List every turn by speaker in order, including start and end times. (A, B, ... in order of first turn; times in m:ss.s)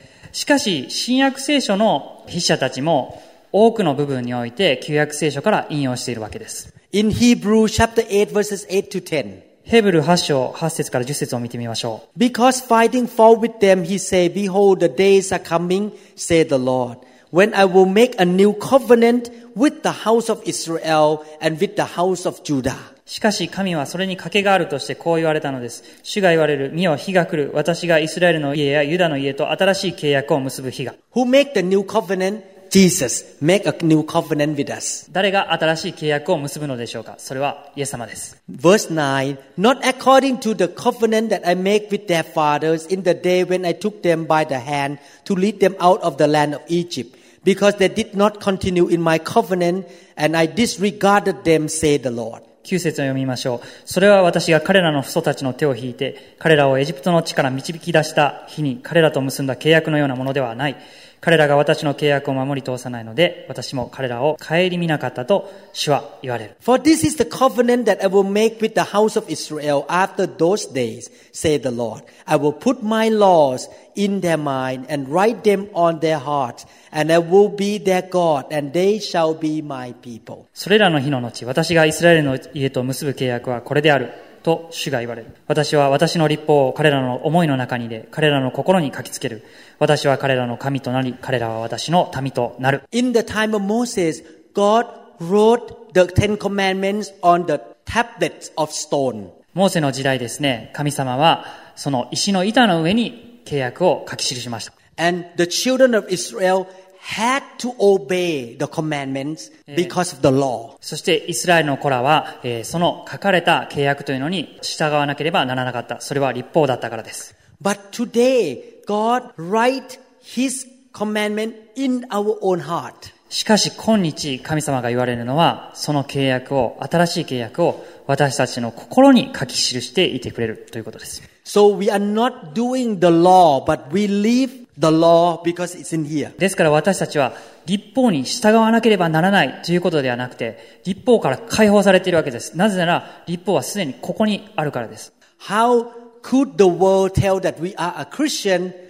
0:00.3-0:06.7 A
0:06.9-0:09.4 B
0:09.7-0:12.0 A
0:12.2-0:22.9 B
0:23.1-0:31.0 A
0:31.1-0:35.0 B
0:35.1-0:38.3 A
0:38.5-0:52.4 B
0:52.6-1:06.5 A
1:06.6-1:20.4 B
1:20.6-1:32.8 A
1:32.9-1:39.3 B
1:39.5-1:44.7 A
1:45.0-1:50.8 B
1:49.7-1:49.9 A
1:50.8-1:57.3 A
1:57.6-2:03.1 B
2:03.3-2:11.2 A
2:11.4-2:16.4 B
2:16.4-2:25.1 A
2:25.4-2:28.7 B